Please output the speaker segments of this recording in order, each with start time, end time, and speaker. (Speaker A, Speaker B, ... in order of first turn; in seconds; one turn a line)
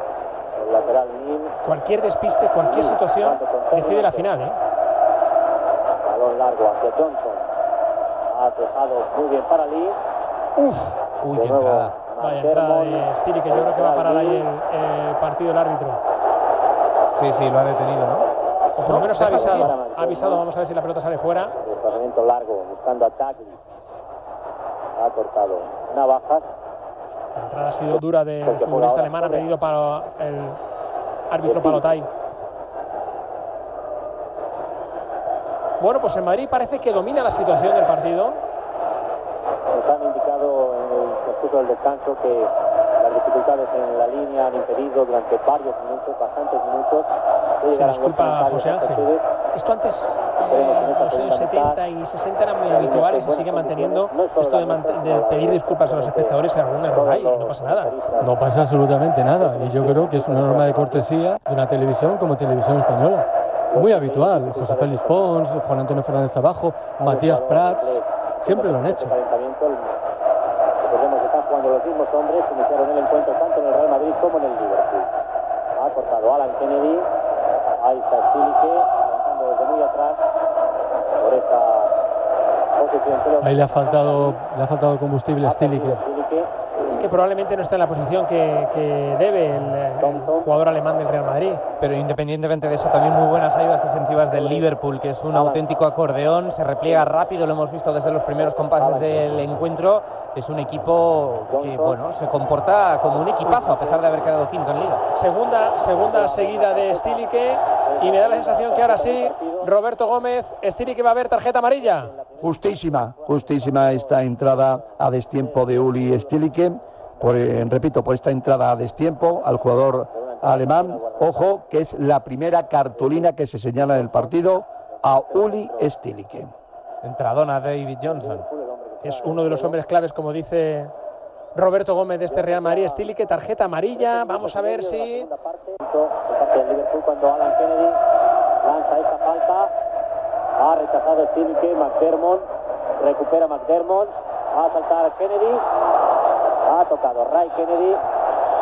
Speaker A: 0.6-1.6
Speaker B: 1.6-4.6
Speaker A: 2.6-4.3
Speaker A: 6.0-7.5
Speaker A: 8.3-10.0
Speaker B: 10.6-11.0
Speaker C: 11.2-11.9
Speaker A: 11.3-14.5
Speaker B: 12.2-16.0
Speaker C: 17.1-18.2
Speaker B: 18.8-21.5
Speaker A: 18.9-20.4
Speaker A: 21.6-23.6
Speaker A: 25.0-26.5
Speaker B: 27.4-30.6
Speaker A: 27.9-29.5
Speaker B: 31.3-32.1
Speaker A: 31.4-31.9
Speaker B: 35.8-38.4
Speaker A: 39.7-49.2
Speaker B: 47.7-58.0
Speaker A: 50.4-51.8
Speaker A: 52.6-56.4
Speaker A: 56.9-58.4
Speaker D: 58.2-69.1
Speaker A: 59.4-61.1
Speaker A: 63.7-65.3
Speaker A: 67.0-70.0
Speaker A: 70.8-75.1
Speaker A: 75.8-77.1
Speaker A: 77.8-80.2
Speaker A: 81.2-81.9
Speaker A: 82.8-84.4
Speaker D: 83.4-86.0
Speaker A: 85.4-86.5
Speaker B: 86.8-91.6
Speaker A: 90.0-90.5
Speaker C: 91.8-105.0
Speaker A: 94.3-94.7
Speaker A: 95.3-95.8
Speaker A: 96.8-97.1
Speaker A: 98.4-99.5
Speaker A: 101.5-102.0
Speaker A: 103.0-104.3
Speaker B: 105.1-112.1
Speaker A: 105.7-109.7
Speaker A: 111.8-116.6
Speaker E: 112.4-126.5
Speaker A: 117.2-117.7
Speaker A: 120.1-121.6
Speaker A: 122.9-126.0
Speaker C: 127.0-128.4
Speaker A: 128.1-129.8
Speaker B: 129.0-130.9
Speaker B: 131.5-135.3
Speaker A: 132.2-138.0
Speaker A: 138.6-139.7
Speaker A: 140.6-145.6
Speaker A: 146.6-148.0